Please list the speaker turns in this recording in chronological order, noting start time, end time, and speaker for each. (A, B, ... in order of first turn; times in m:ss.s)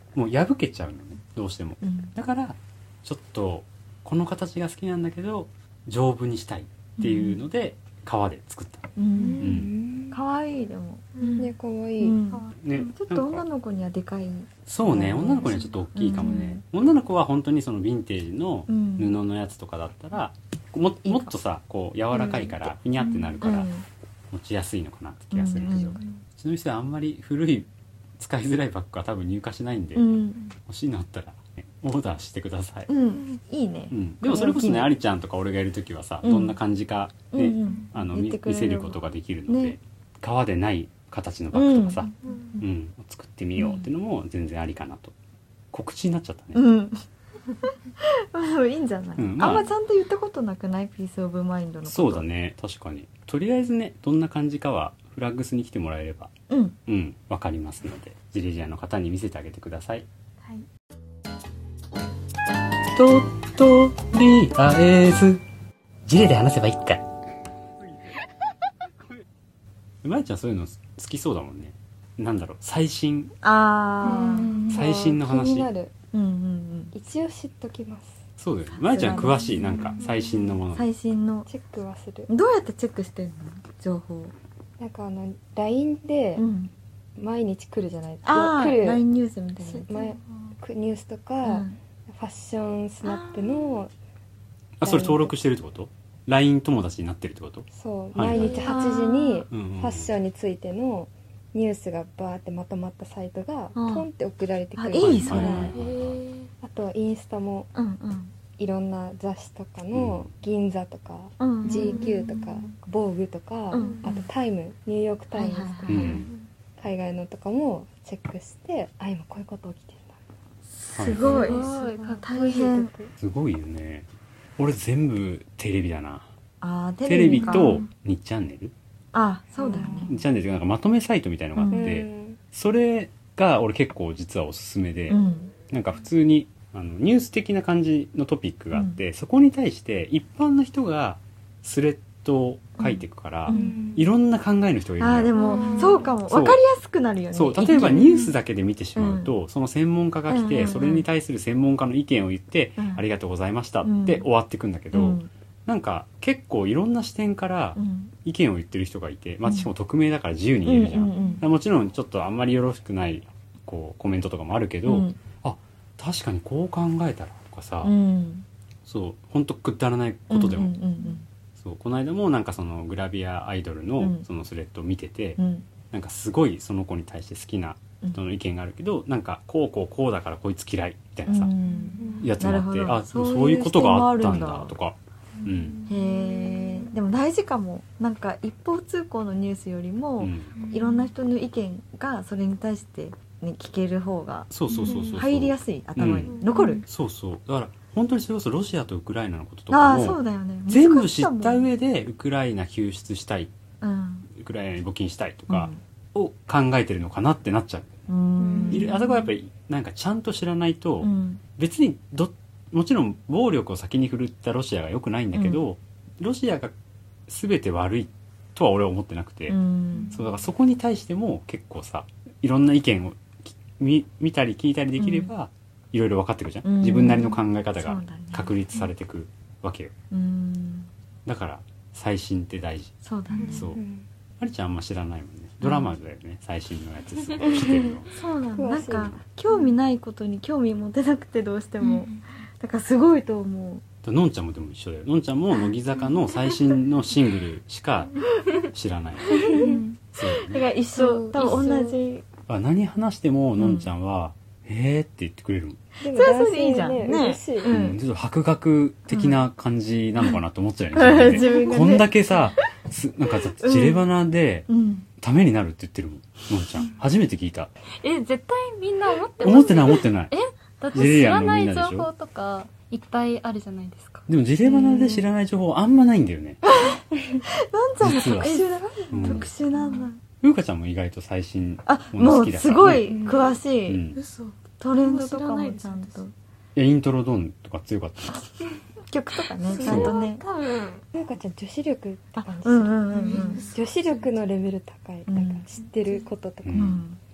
0:00.1-0:09.7 A
0:01.8-0:02.1 B
0:07.0-0:07.4 B
0:09.0-0:09.5 B
0:09.2-0:10.2 C
0:10.1-0:11.4 B
0:11.2-0:11.5 D
0:11.4-0:12.2 C
0:12.0-0:16.6 B
0:12.6-0:13.4 A
0:14.7-0:23.7 A
0:18.7-0:19.2 B
0:21.0-0:21.3 B
0:23.4-0:23.8 B
0:24.3-0:32.9 A
0:25.3-0:26.0 B
0:30.0-0:30.4 B
0:32.9-0:34.9 B
0:33.9-0:45.1 A
0:36.2-0:36.6 B
0:37.3-0:39.8 B
0:41.5-0:42.1 B
0:42.2-0:42.6 D
0:43.6-0:43.8 B
0:45.7-0:46.6 A
0:46.5-0:47.0 B
0:47.6-0:52.2 B
0:49.2-0:49.7 A
0:51.9-0:56.3 A
0:56.5-0:56.8 B
0:56.9-1:00.0 A
1:02.9-1:05.4 A
1:06.0-1:07.0 A
1:10.0-1:13.3 A
1:13.4-1:14.5 B
1:14.0-1:15.9 C
1:14.0-1:14.7 D
1:14.7-1:15.7 A
1:16.1-1:16.9 B
1:16.9-1:18.2 C
1:18.4-1:20.8 A
1:18.8-1:20.0 B
1:20.7-1:21.5 B
1:21.5-1:22.3 C
1:22.3-1:24.3 B
1:24.8-1:26.4 C
1:26.4-1:26.7 B
1:27.2-1:29.0 C
1:28.2-1:29.9 B
1:29.6-1:33.9 C
1:31.4-1:31.8 B
1:34.8-1:38.6 A
1:34.8-1:35.3 C
1:37.7-1:45.8 C
1:38.3-1:38.9 D
1:38.6-1:39.4 B
1:39.5-1:40.1 A
1:43.7-1:44.1 B
1:44.8-1:45.7 B
1:45.0-1:46.2 A
1:45.7-1:46.5 D
1:46.6-1:47.7 C
1:47.7-1:48.3 B
1:48.6-2:00.2 C
1:49.9-1:50.3 A
1:51.4-1:52.1 B
1:51.7-1:52.7 D
1:53.7-1:54.2 B
1:53.8-1:54.1 D
1:55.3-1:56.2 B
1:55.9-1:56.3 A
1:56.0-1:56.4 D
2:00.8-2:01.7 B
2:01.0-2:01.6 A
2:01.2-2:02.7 D
2:01.3-2:03.1 C
2:02.2-2:02.9 B
2:03.2-2:04.1 A
2:04.6-2:06.2 A
2:06.6-2:07.8 B
2:07.0-2:08.7 A
2:09.1-2:10.1 B
2:09.5-2:10.1 C
2:09.6-2:10.0 D
2:10.1-2:15.2 A
2:11.6-2:12.0 B
2:11.7-2:12.4 C
2:15.1-2:15.5 B
2:15.7-2:25.3 A
2:18.7-2:19.0 B
2:22.8-2:23.8 B
2:23.5-2:24.0 C
2:23.6-2:24.0 D
2:25.0-2:28.2 B
2:25.3-2:26.1 D
2:26.2-2:26.6 A
2:27.3-2:47.9 A
2:27.8-2:28.1 D
2:29.0-2:29.3 B
2:30.3-2:31.0 B
2:32.8-2:33.0 B
2:33.8-2:34.3 B
2:34.9-2:35.3 B
2:37.8-2:38.1 B
2:39.4-2:39.7 B
2:40.6-2:41.4 B
2:44.8-2:45.2 B
2:47.8-2:48.4 B
2:48.8-2:50.7 A
2:50.3-2:51.2 B
2:51.6-2:55.4 A
2:54.0-2:54.2 B
2:55.4-2:55.6 B
2:55.9-3:01.5 A
3:01.3-3:04.7 B
3:01.7-3:02.3 D
3:02.2-3:05.8 A
3:05.4-3:06.9 D
3:05.9-3:16.8 B
3:10.2-3:10.5 A
3:10.6-3:11.0 D
3:14.5-3:23.5 A
3:14.7-3:15.2 D
3:16.3-3:16.8 D
3:19.7-3:21.7 B
3:23.8-3:24.3 B
3:24.3-3:28.0 A
3:25.5-3:25.8 B
3:28.1-3:28.9 B
3:28.4-3:28.9 D
3:28.4-3:28.8 C
3:28.7-3:36.7 A
3:31.0-3:31.4 B
3:35.3-3:35.6 B
3:37.3-3:39.6 A
3:39.5-3:40.2 B
3:40.1-3:49.9 A
3:45.0-3:45.3 B
3:46.6-3:48.9 B
3:50.1-3:50.9 B
3:51.2-3:52.9 A
3:53.0-3:53.6 B
3:53.3-3:53.6 D
3:53.5-3:53.8 A
3:53.8-3:54.0 C
3:54.4-3:58.1 A
3:55.6-3:55.9 B
3:57.4-3:58.0 C
3:58.1-4:03.8 B
3:58.5-3:59.2 C
4:04.0-4:09.5 A
4:09.3-4:09.6 B
4:09.5-4:09.8 C
4:10.1-4:10.6 A
4:10.2-4:12.2 B
4:11.3-4:11.6 E
4:12.5-4:15.8 A
4:13.6-4:13.9 B
4:16.0-4:17.7 C
4:16.0-4:18.0 B
4:17.6-4:24.7 A
4:19.1-4:19.4 B
4:21.0-4:22.4 B
4:21.4-4:22.0 D
4:23.6-4:24.1 B
4:24.7-4:25.1 B
4:25.2-4:27.7 A
4:28.0-4:34.2 E
4:29.4-4:30.3 A
4:30.9-4:32.1 A
4:34.3-4:36.6 A
4:34.6-4:35.2 B
4:36.6-4:40.2 B
4:38.0-4:39.5 A
4:39.0-4:39.9 D
4:40.4-4:43.2 A
4:41.8-4:44.0 B
4:43.1-4:43.4 C
4:43.1-4:43.4 D
4:43.9-4:44.2 A
4:44.2-4:46.2 D
4:44.8-4:46.3 B
4:46.8-4:48.4 A
4:49.1-4:50.4 B
4:49.6-4:51.0 D
4:49.8-4:50.1 A
4:51.1-4:56.9 C
4:52.4-4:53.6 B
4:53.1-4:54.3 D
4:55.3-4:55.6 B
4:55.8-4:56.2 D
4:56.6-4:57.0 A
4:56.7-4:57.2 B